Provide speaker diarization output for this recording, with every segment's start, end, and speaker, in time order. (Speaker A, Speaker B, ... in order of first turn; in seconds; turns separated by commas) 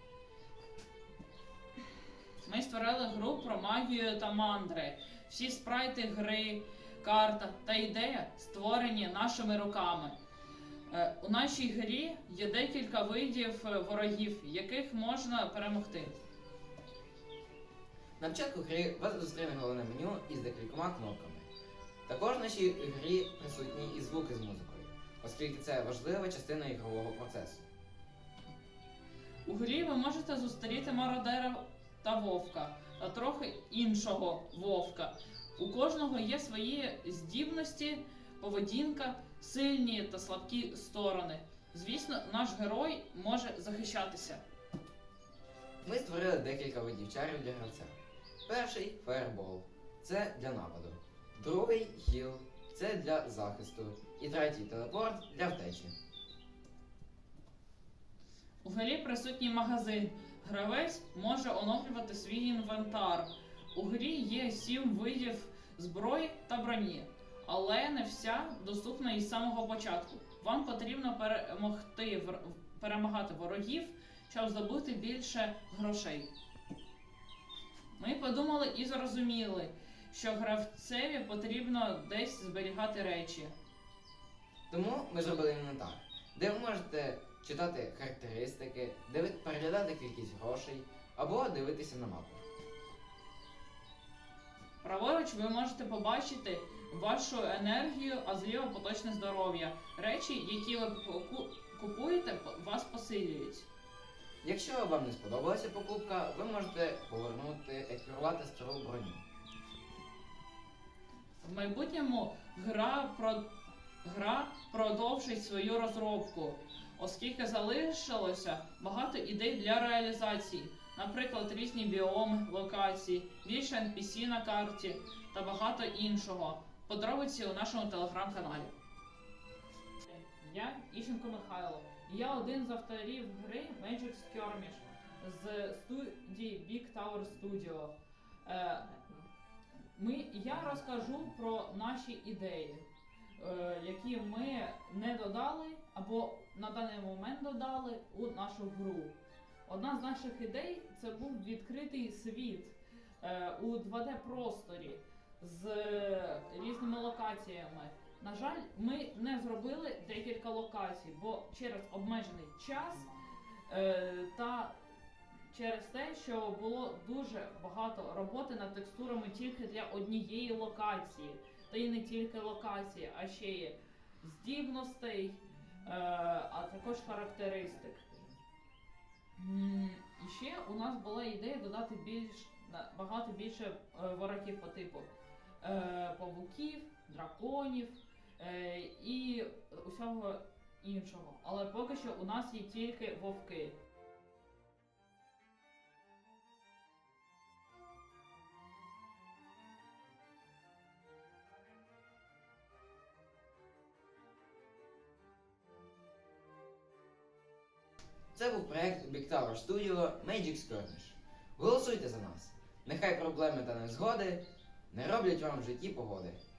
Speaker A: 2.4-10.2, Speaker A: 10.9-16.1, Speaker B: 18.2-21.5, Speaker B: 22.1-27.6, Speaker A: 29.5-44.4, Speaker B: 45.8-47.9, Speaker B: 48.5-55.9, Speaker A: 58.6-76.3, Speaker A: 78.0-83.5, Speaker B: 84.7-92.4, Speaker A: 94.8-103.7, Speaker B: 104.4-109.2, Speaker A: 111.4-113.5, Speaker A: 114.0-128.7, Speaker A: 130.1-139.2, Speaker A: 139.9-142.8, Speaker A: 143.4-149.1, Speaker A: 149.7-163.2, Speaker A: 163.7-164.8, Speaker A: 165.5-178.2, Speaker A: 179.4-185.1, Speaker A: 185.6-193.7, Speaker B: 208.3-216.4